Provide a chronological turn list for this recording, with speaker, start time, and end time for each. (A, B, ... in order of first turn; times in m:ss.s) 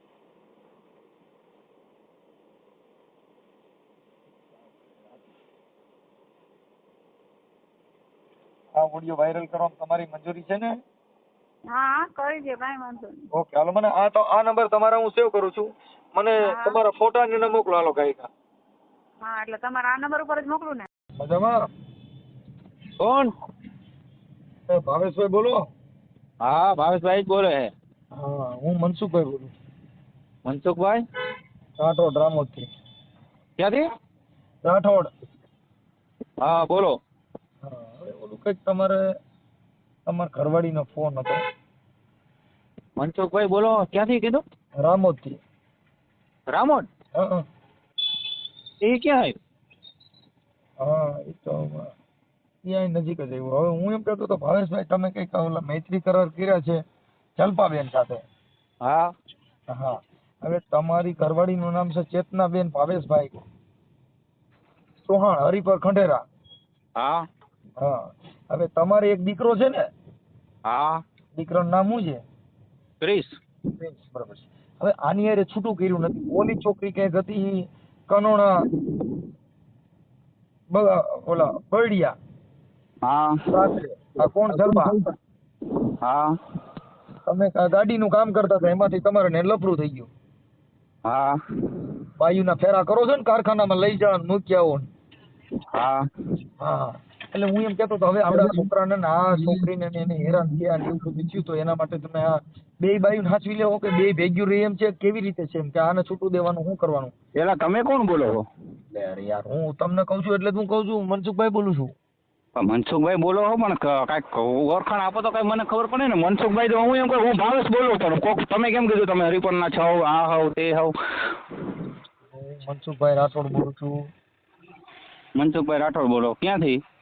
0:04.8-0:05.2 A
0:08.7-0:10.8 A
0:11.7-0:13.3 B
0:13.3-0:18.3 A
0:16.4-0:16.8 B
0:19.2-0:20.9 B
0:21.2-0:21.7 A
0:23.0-0:23.3 C
0:24.7-0:25.7 A
0:26.4-0:27.7 C
0:28.1-0:29.5 A
0:30.5-0:31.0 C
0:31.8-0:32.7 A
0:33.6-0:33.9 C
0:34.6-0:35.1 A
0:36.4-0:37.0 C
0:37.6-0:39.0 A
0:40.0-0:41.4 A
0:43.0-0:44.4 C
0:44.8-0:45.4 A
0:46.5-0:46.9 C
0:47.1-0:47.5 A
0:48.8-0:49.4 C
0:50.8-0:51.9 A
0:52.6-0:56.8 A
0:57.4-0:58.2 A
0:58.8-0:59.1 C
0:59.7-1:03.4 A
1:05.0-1:06.2 A
1:07.0-1:07.2 C
1:07.8-1:09.9 A
1:10.6-1:11.0 C
1:11.4-1:12.2 A
1:13.0-1:13.4 C
1:13.7-1:18.7 A
1:20.7-1:22.2 A
1:23.0-1:23.7 C
1:23.5-1:25.0 A
1:24.5-1:25.0 C
1:25.8-1:26.4 C
1:27.2-1:30.1 A
1:31.0-1:31.4 C
1:32.2-1:34.9 A
1:35.7-1:36.1 C
1:36.6-1:47.1 A
1:38.4-1:38.7 C
1:47.4-1:48.4 C
1:48.9-1:51.9 A
1:52.6-2:00.9 C
2:02.3-2:04.1 A
2:05.4-2:06.8 C